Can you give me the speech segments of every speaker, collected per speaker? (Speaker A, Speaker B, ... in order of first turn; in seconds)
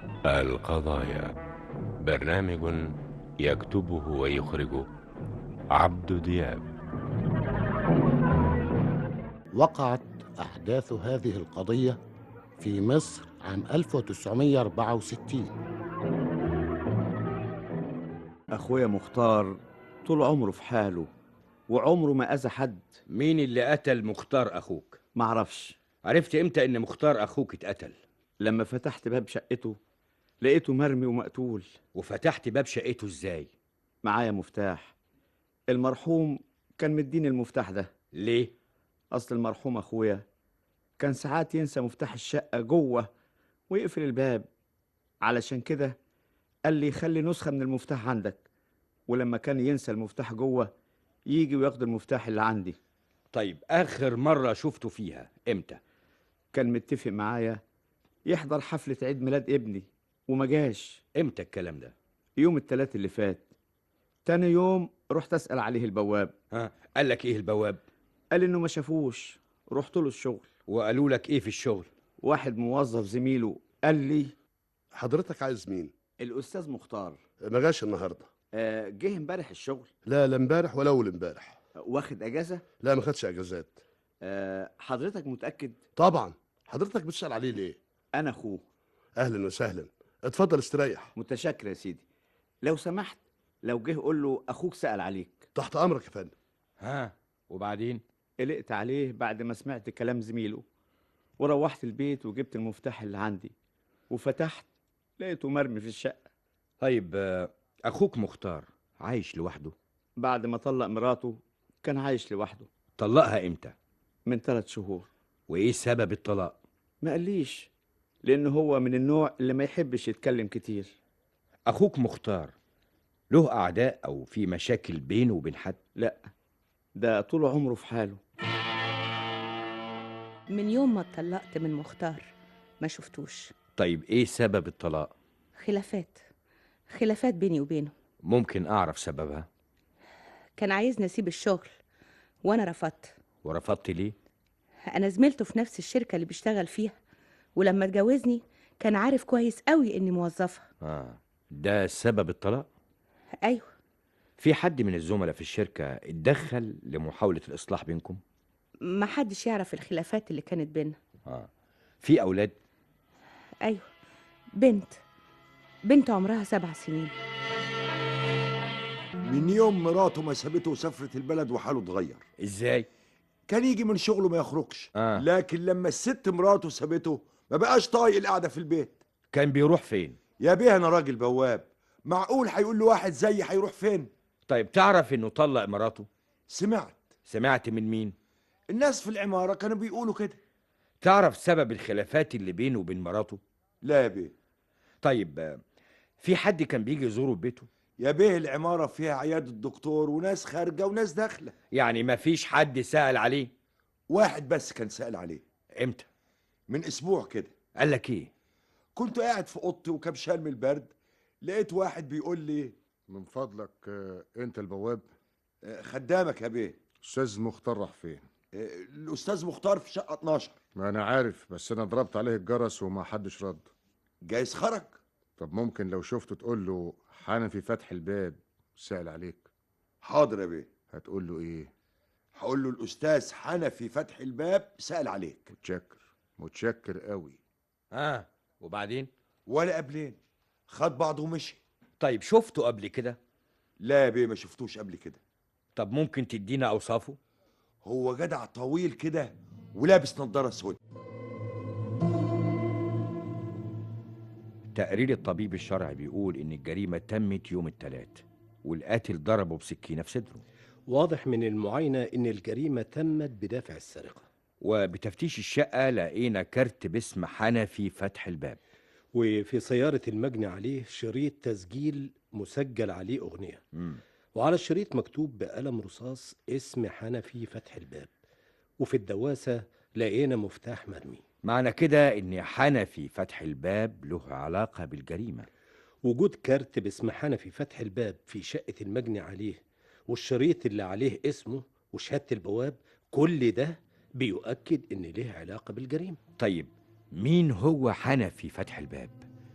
Speaker A: 0.3-1.3, 2.0-2.8, 3.4-4.9, 5.7-6.7
Speaker B: 9.5-12.0, 12.6-15.5
Speaker C: 18.5-21.1, 21.7-23.0, 25.1-25.8, 28.4-29.8, 30.4-31.8, 34.0-34.9, 35.7-37.9, 39.1-40.2, 41.0-43.1, 43.7-44.5, 45.2-46.0, 46.7-48.5, 49.1-50.7, 51.3-52.8, 56.5-57.6, 58.2-61.0, 62.4-63.5, 64.2-66.4, 68.3-70.5, 72.2-74.3, 76.2-77.2, 78.5-79.9, 81.8-82.6, 84.2-85.8, 88.1-88.6, 91.1-92.0, 92.6-95.5, 98.4-100.6, 101.4-103.5, 104.1-104.7, 105.2-106.2, 110.2-112.7, 114.2-115.1, 117.0-117.7, 118.2-121.0, 126.0-126.3, 127.0-128.2
Speaker D: 23.1-25.0, 26.0-28.0, 31.9-33.5, 38.1-38.5, 53.3-55.8, 61.1-61.9, 66.5-67.8, 70.7-71.9, 96.8-98.0, 106.8-109.8, 113.0-113.7, 115.5-116.6, 121.7-122.5, 123.3-125.8, 133.8-135.1, 138.2-139.5, 143.4-144.2, 150.8-152.7, 154.4-158.2, 162.0-162.6, 172.4-172.9, 175.0-175.2, 179.3-180.2, 184.5-186.1, 187.3-188.2, 191.0-193.4, 195.0-195.6, 196.2-197.7, 201.7-203.5, 205.8-206.1, 207.8-208.3, 237.9-239.1, 242.0-243.2, 245.8-247.2, 254.7-260.4, 264.6-268.6, 273.7-274.0, 281.4-285.5, 296.4-299.2
Speaker E: 74.9-75.9, 77.4-78.3, 80.0-81.6, 82.8-83.8, 86.0-87.8, 89.2-91.1, 95.5-96.3
Speaker F: 130.5-133.5, 135.6-136.2, 136.9-137.9, 140.6-141.7, 142.4-143.1, 144.9-147.0, 147.6-150.7, 153.4-153.7, 158.8-161.0, 163.6-163.9, 164.6-165.0, 165.9-167.1
Speaker G: 169.2-172.2, 173.5-179.0, 180.4-184.1, 186.5-187.1, 188.7-190.4, 193.8-194.3, 198.0-201.5, 204.1-205.4, 206.7-207.5, 209.0-210.9, 211.4-212.8, 215.6-216.8, 218.5-220.6, 224.2-225.0, 230.0-230.7, 232.3-235.5, 239.5-241.6, 243.8-245.2, 247.8-250.8
Speaker H: 213.1-215.1, 217.0-218.2, 220.8-223.7, 225.4-229.5, 230.9-231.7, 235.6-237.4
Speaker I: 260.9-264.2, 269.1-273.6, 274.3-278.1, 278.8-281.2, 286.0-296.2